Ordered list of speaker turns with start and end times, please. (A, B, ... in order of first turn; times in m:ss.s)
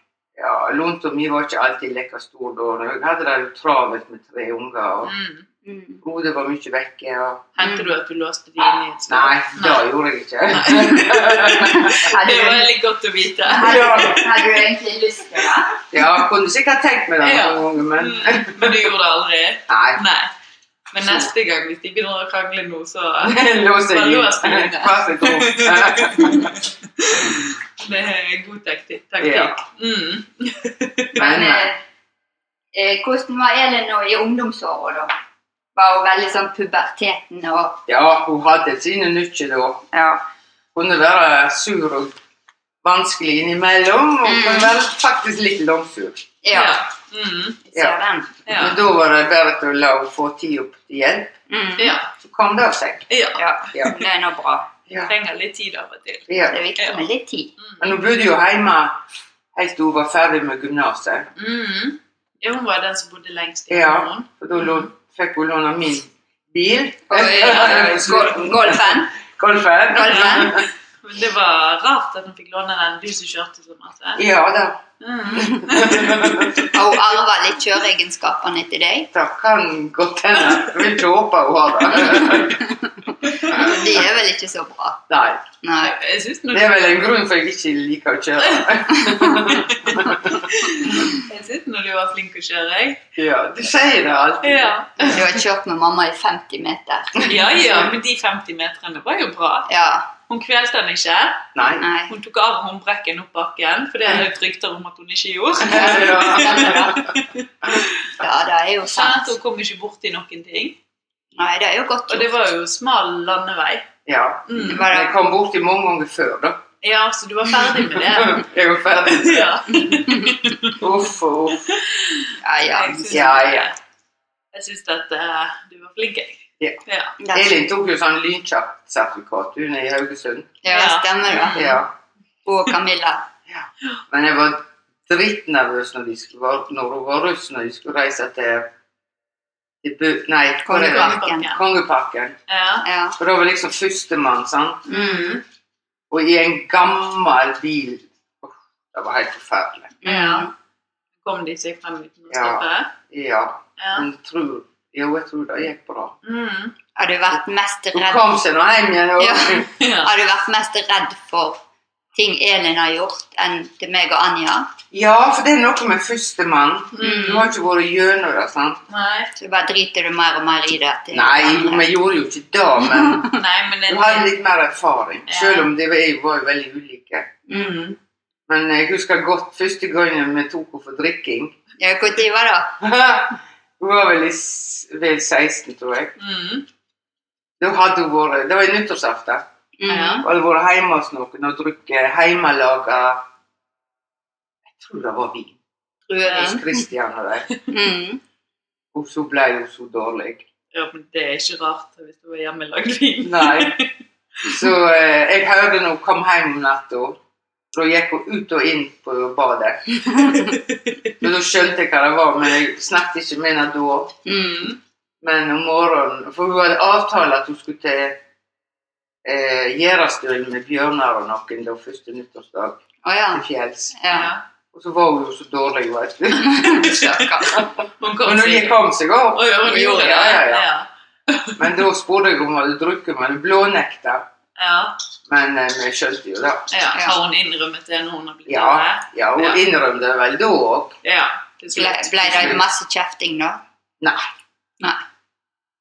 0:00.4-0:05.1 A
0:05.0-0:05.4 B
0:05.6-0:06.0 C
0:06.0-0:07.5 A
0:07.6-0:09.9 B
0:07.6-0:07.9 C
0:09.1-0:12.1 A
0:10.5-0:14.4 B
0:11.7-0:12.7 C
0:13.5-0:15.8 C
0:13.6-0:14.3 A
0:15.9-0:18.9 A
0:17.2-0:20.3 B
0:19.7-0:20.0 A
0:20.9-0:31.2 B
0:21.0-0:21.3 A
0:23.2-0:26.6 A
0:29.2-0:29.6 A
0:31.1-0:31.8 C
0:31.2-0:31.7 A
0:32.7-0:35.1 C
0:35.7-0:37.8 C
0:37.9-0:39.9 A
0:39.9-0:40.2 C
0:40.7-0:42.1 A
0:42.8-0:46.2 A
0:44.2-0:44.7 C
0:46.4-0:46.8 C
0:46.5-0:47.6 B
0:47.7-0:48.3 C
0:48.4-0:48.8 B
0:48.5-0:51.4 A
0:51.5-0:52.0 C
0:51.8-0:52.1 B
0:52.1-0:53.1 A
0:53.1-0:53.4 B
0:53.4-0:54.7 C
0:53.7-0:54.0 A
0:54.9-0:55.1 A
0:55.1-0:57.1 B
0:56.3-0:56.6 A
0:56.4-0:57.5 C
0:57.8-0:59.0 A
0:59.5-1:01.3 A
1:01.4-1:04.8 B
1:03.7-1:10.7 A
1:07.1-1:09.2 C
1:09.9-1:10.6 C
1:10.1-1:14.2 B
1:14.2-1:14.8 A
1:15.0-1:16.7 B
1:15.3-1:16.7 A
1:16.7-1:19.1 C
1:19.1-1:22.6 A
1:22.2-1:25.0 C
1:23.5-1:24.0 A
1:25.1-1:25.4 A
1:25.6-1:25.9 C
1:25.8-1:27.0 B
1:26.5-1:30.5 A
1:28.4-1:28.7 B
1:29.3-1:33.0 B
1:33.2-1:35.3 A
1:34.4-1:35.2 B
1:35.0-1:37.2 C
1:37.2-1:37.8 A
1:37.3-1:39.7 B
1:39.7-1:40.1 C
1:40.3-1:41.5 B
1:41.5-1:41.9 A
1:41.8-1:42.1 C
1:42.1-1:47.9 B
1:45.6-1:47.1 A
1:45.7-1:47.1 C
1:48.2-1:49.4 C
1:48.9-1:50.8 B
1:51.4-1:52.3 C
1:52.1-1:53.9 B
1:54.0-1:56.6 A
1:54.5-1:54.9 B
1:54.6-1:55.2 C
1:56.8-1:58.4 B
1:57.8-1:59.7 A
1:59.0-2:00.8 B
1:59.9-2:00.3 C
2:00.7-2:01.6 A
2:01.7-2:03.8 B
2:02.4-2:03.4 C
2:03.1-2:03.7 A
2:04.5-2:07.2 B
2:07.2-2:07.5 C
2:07.3-2:10.6 A
2:10.6-2:11.7 C
2:10.7-2:11.8 B
2:11.5-2:11.9 A
2:12.4-2:13.3 C
2:13.5-2:18.7 A
2:19.8-2:22.4 A
2:20.6-2:21.5 C
2:20.7-2:21.6 B
2:22.5-2:22.8 B
2:22.8-2:23.2 C
2:23.2-2:24.9 A
2:24.9-2:25.4 C
2:24.9-2:25.4 B
2:26.1-2:30.0 A
2:30.0-2:30.5 C
2:30.0-2:30.5 B
2:31.2-2:32.9 B
2:32.3-2:36.2 A
2:33.8-2:34.1 B
2:36.2-2:36.7 B
2:37.0-2:38.3 C
2:37.9-2:39.7 A
2:39.2-2:41.6 C
2:39.8-2:40.1 B
2:42.1-2:44.7 C
2:44.9-2:48.8 A
2:46.9-2:47.5 B
2:47.0-2:47.4 C
2:48.9-2:49.3 B
2:49.4-2:51.9 C
2:51.1-2:53.4 A
2:53.0-2:53.2 C
2:53.3-2:54.3 B
2:53.9-2:57.4 A
2:55.3-2:55.7 B
2:57.5-2:57.9 C
2:57.5-2:58.0 B
2:58.5-3:01.5 A
3:01.8-3:02.8 C
3:02.8-3:06.2 A
3:06.2-3:06.7 B
3:07.6-3:09.4 A
3:09.8-3:10.3 C
3:09.9-3:10.2 B
3:10.2-3:13.2 A
3:14.7-3:15.6 A
3:16.1-3:16.6 C
3:16.2-3:16.6 B
3:16.2-3:17.5 A
3:17.7-3:18.2 C
3:18.9-3:20.4 A
3:20.7-3:23.9 B
3:23.2-3:23.8 A
3:24.4-3:27.2 A
3:27.7-3:30.5 A
3:30.1-3:30.4 C
3:31.2-3:34.2 A
3:34.2-3:34.8 C
3:35.2-3:38.2 A
3:39.2-3:42.8 A
3:43.0-3:44.3 C
3:43.3-3:44.0 A
3:44.1-3:44.4 B
3:44.7-3:46.9 A
3:46.4-3:47.7 C
3:47.4-3:50.7 A
3:48.0-3:48.8 B
3:49.3-3:51.7 B
3:51.6-3:54.3 A
3:54.6-3:55.0 B
3:55.3-3:56.7 A
3:56.7-3:59.6 B
3:58.5-4:01.0 A
4:01.0-4:02.6 B
4:01.7-4:03.6 C
4:02.2-4:02.6 A